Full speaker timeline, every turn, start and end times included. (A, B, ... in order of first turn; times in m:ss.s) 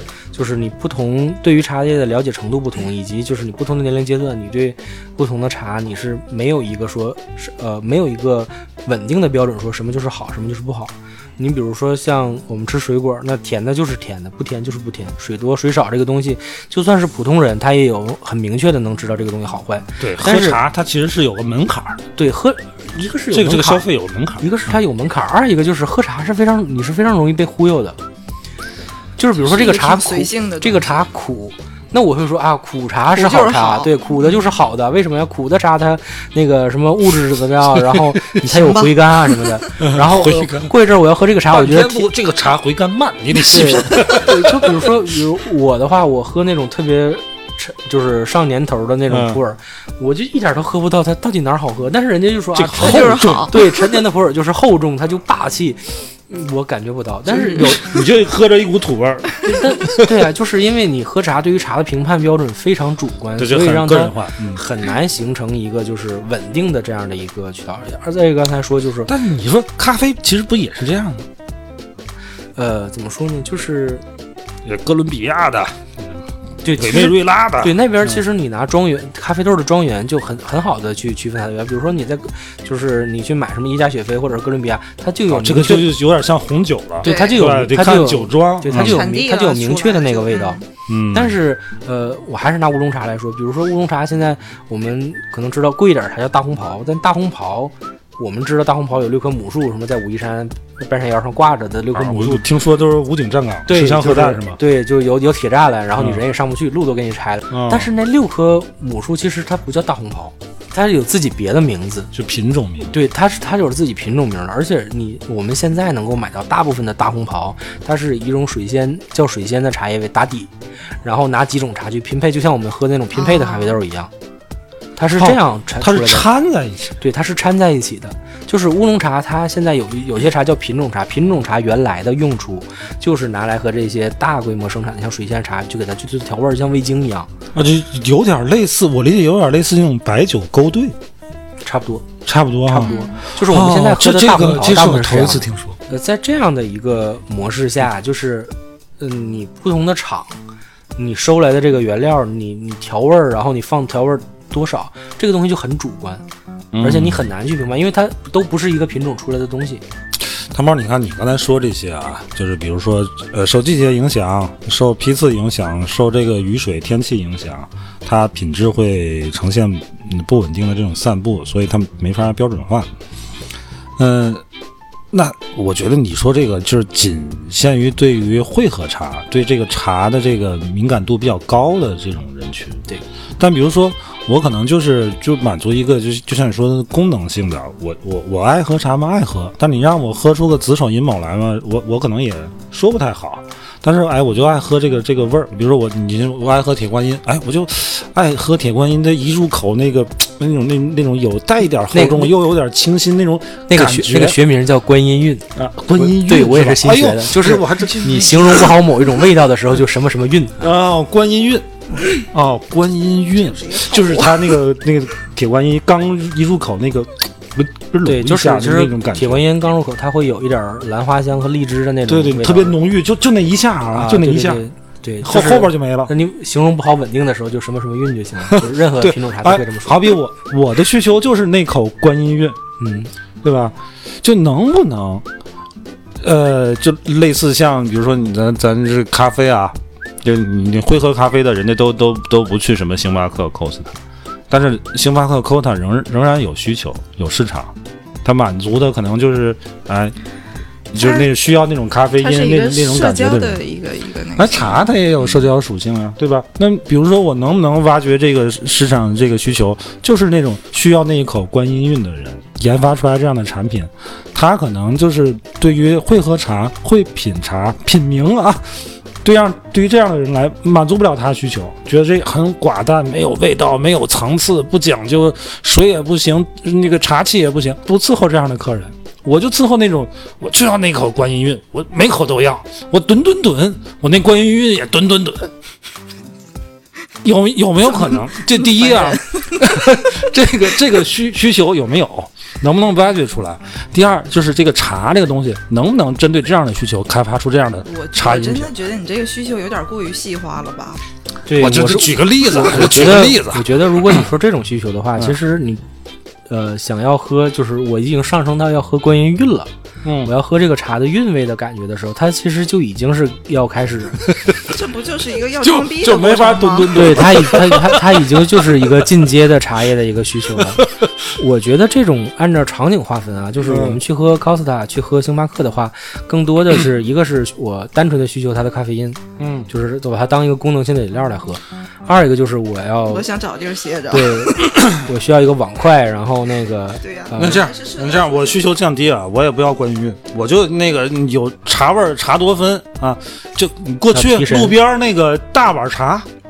0:00.3-0:20.6 A
0:20.0-0:22.0 B
0:22.2-0:28.0 A
0:23.3-0:24.8 B
0:29.2-0:42.1 A
0:29.4-0:30.9 C
0:33.1-0:33.9 C
0:37.8-0:38.4 B
0:38.6-0:39.0 C
0:39.8-0:40.7 B
0:41.5-0:45.2 B
0:43.4-0:57.9 A
0:49.1-0:49.4 B
0:52.6-0:53.6 B
0:52.8-0:53.6 C
0:57.5-1:00.1 B
0:59.4-1:09.1 A
1:03.4-1:04.6 B
1:09.1-1:11.3 B
1:12.6-1:14.0 A
1:14.6-1:16.2 B
1:16.6-1:25.9 A
1:16.8-1:18.2 B
1:25.3-1:29.0 B
1:27.0-1:42.5 A
1:27.0-1:27.4 C
1:28.7-1:30.6 C
1:30.9-1:31.4 B
1:41.9-1:44.6 B
1:43.7-1:52.1 A
1:46.0-1:46.2 B
1:47.5-1:47.9 B
1:52.1-1:53.0 B
1:52.9-2:00.5 A
2:01.0-2:04.1 A
2:03.2-2:03.8 C
2:05.0-2:06.3 A
2:05.1-2:07.0 B
2:07.0-2:17.3 A
2:17.5-2:21.0 B
2:21.6-2:22.1 A
2:22.2-2:25.8 B
2:22.7-2:30.4 A
2:22.8-2:23.2 C
2:31.0-2:36.2 A
2:36.7-2:37.3 B
2:36.8-2:39.8 A
2:40.3-2:52.9 B
2:54.0-2:54.4 B
2:55.1-3:02.9 B
3:03.4-3:24.4 B
3:21.9-3:22.3 A
3:23.7-3:30.7 A
3:25.6-3:28.7 B
3:30.6-3:39.5 B
3:33.4-3:34.5 C
3:38.0-3:42.8 A
3:42.1-3:44.6 B
3:43.9-3:50.1 A
3:45.2-3:46.1 B
3:48.5-3:52.6 B
3:52.8-3:53.1 A
3:53.4-3:55.3 B
3:56.2-4:04.0 B
4:04.5-4:10.2 B
4:10.9-4:13.6 B
4:11.0-4:11.3 C
4:12.2-4:14.9 C
4:14.4-4:45.5 B
4:47.2-4:58.7 B
4:48.6-4:49.4 C
4:57.8-5:01.0 C
5:01.5-5:05.8 A
5:01.6-5:04.3 B
5:06.5-5:09.7 A
5:10.0-5:10.3 B
5:10.2-5:14.4 A
5:14.6-5:17.2 C
5:15.6-5:19.1 B
5:16.9-5:33.3 A
5:20.6-5:21.1 B
5:23.6-5:24.0 B
5:29.4-5:29.7 B
5:33.1-5:34.5 C
5:34.1-5:37.7 A
5:37.0-5:38.6 C
5:37.4-5:46.3 B
5:44.1-5:44.8 A